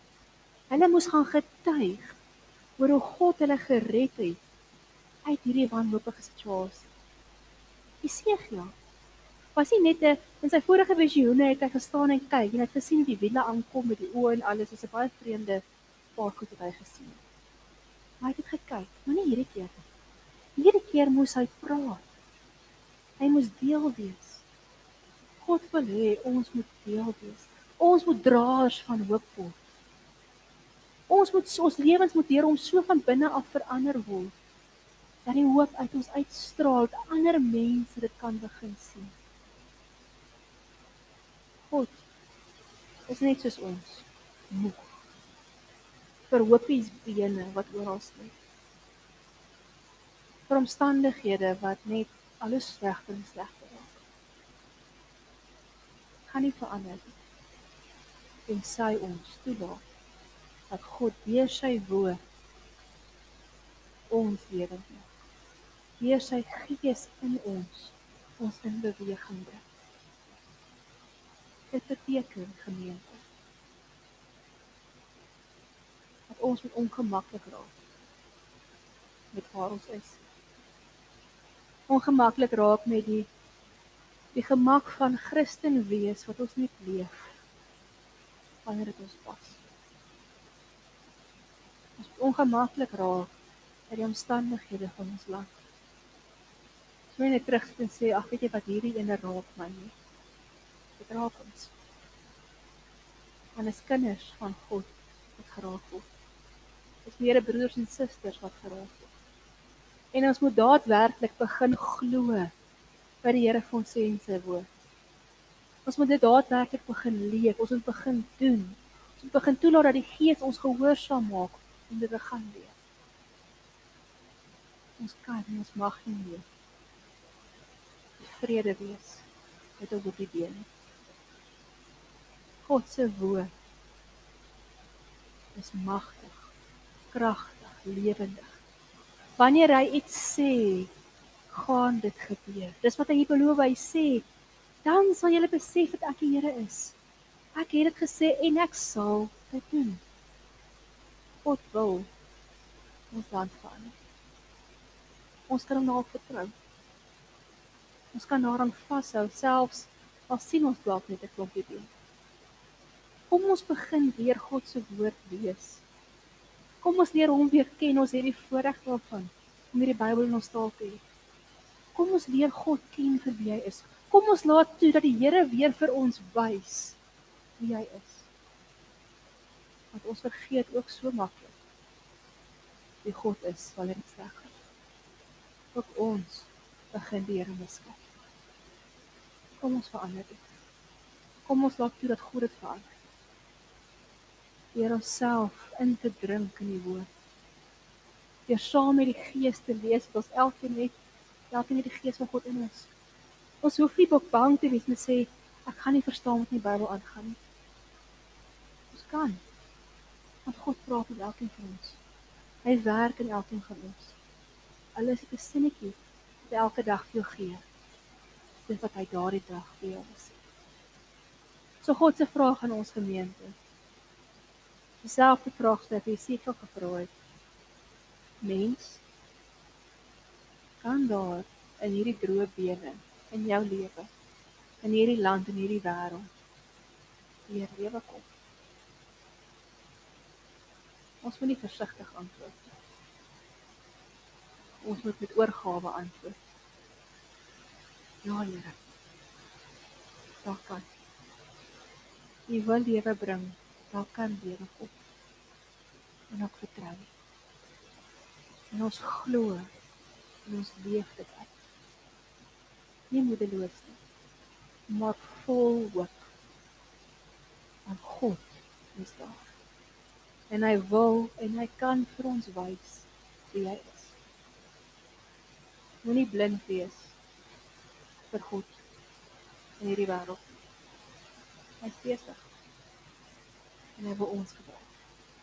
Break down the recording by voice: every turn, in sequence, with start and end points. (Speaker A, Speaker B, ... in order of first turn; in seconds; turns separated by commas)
Speaker A: 0.7-2.2, Speaker A: 2.8-4.4, Speaker A: 5.2-6.9, Speaker A: 8.0-8.7, Speaker A: 9.6-15.6, Speaker A: 16.1-17.2, Speaker A: 18.2-19.8, Speaker A: 20.6-22.0, Speaker A: 23.2-24.4, Speaker A: 25.4-29.6, Speaker A: 31.1-34.3, Speaker A: 35.2-39.1, Speaker A: 41.7-42.0, Speaker A: 43.1-44.9, Speaker A: 46.3-48.3, Speaker A: 50.5-54.0, Speaker A: 56.2-57.1, Speaker A: 58.5-59.8, Speaker A: 60.7-62.2, Speaker A: 64.1-65.1, Speaker A: 66.0-69.6, Speaker A: 71.7-73.2, Speaker A: 76.3-77.7, Speaker A: 79.3-80.2, Speaker A: 81.9-83.3, Speaker A: 84.3-87.3, Speaker A: 88.6-89.6, Speaker A: 92.0-93.3, Speaker A: 93.9-95.5, Speaker A: 97.1-99.9, Speaker A: 101.0-101.7, Speaker A: 103.5-106.0, Speaker A: 107.0-109.1, Speaker A: 110.1-112.5, Speaker A: 113.2-114.7, Speaker A: 115.8-122.7, Speaker A: 125.0-126.4, Speaker A: 128.2-129.2, Speaker A: 129.8-130.7, Speaker A: 132.6-133.5, Speaker A: 135.5-136.4, Speaker A: 137.1-138.6, Speaker A: 139.4-140.9, Speaker A: 141.5-144.2, Speaker A: 144.8-146.9, Speaker A: 147.5-150.0, Speaker A: 151.4-152.1, Speaker A: 153.1-153.9, Speaker A: 155.5-156.5, Speaker A: 158.1-161.9, Speaker A: 163.3-165.8, Speaker A: 166.8-171.0, Speaker A: 171.9-177.0, Speaker A: 177.6-178.3, Speaker A: 179.9-181.5, Speaker A: 183.0-184.5, Speaker A: 185.7-188.1, Speaker A: 189.6-190.4, Speaker A: 191.4-192.9, Speaker A: 194.7-197.1, Speaker A: 198.5-200.9, Speaker A: 201.5-202.9, Speaker A: 203.6-207.4, Speaker A: 208.9-209.4, Speaker A: 210.4-212.0, Speaker A: 212.6-214.2, Speaker A: 214.9-216.0, Speaker A: 216.5-217.6, Speaker A: 218.7-220.4, Speaker A: 221.8-223.5, Speaker A: 225.0-227.1, Speaker A: 228.4-229.0, Speaker A: 230.8-234.1, Speaker A: 234.8-236.3, Speaker A: 237.5-238.2, Speaker A: 241.2-242.7, Speaker A: 244.8-246.4, Speaker A: 248.2-248.8, Speaker A: 250.4-250.8, Speaker A: 252.5-254.9, Speaker A: 256.3-257.1, Speaker A: 258.7-259.7, Speaker A: 260.4-261.5, Speaker A: 263.1-264.0, Speaker A: 264.9-266.3, Speaker A: 267.9-269.5, Speaker A: 270.5-274.1, Speaker A: 276.0-277.1, Speaker A: 278.3-278.8, Speaker A: 279.8-280.4, Speaker A: 281.8-282.4, Speaker A: 284.0-284.9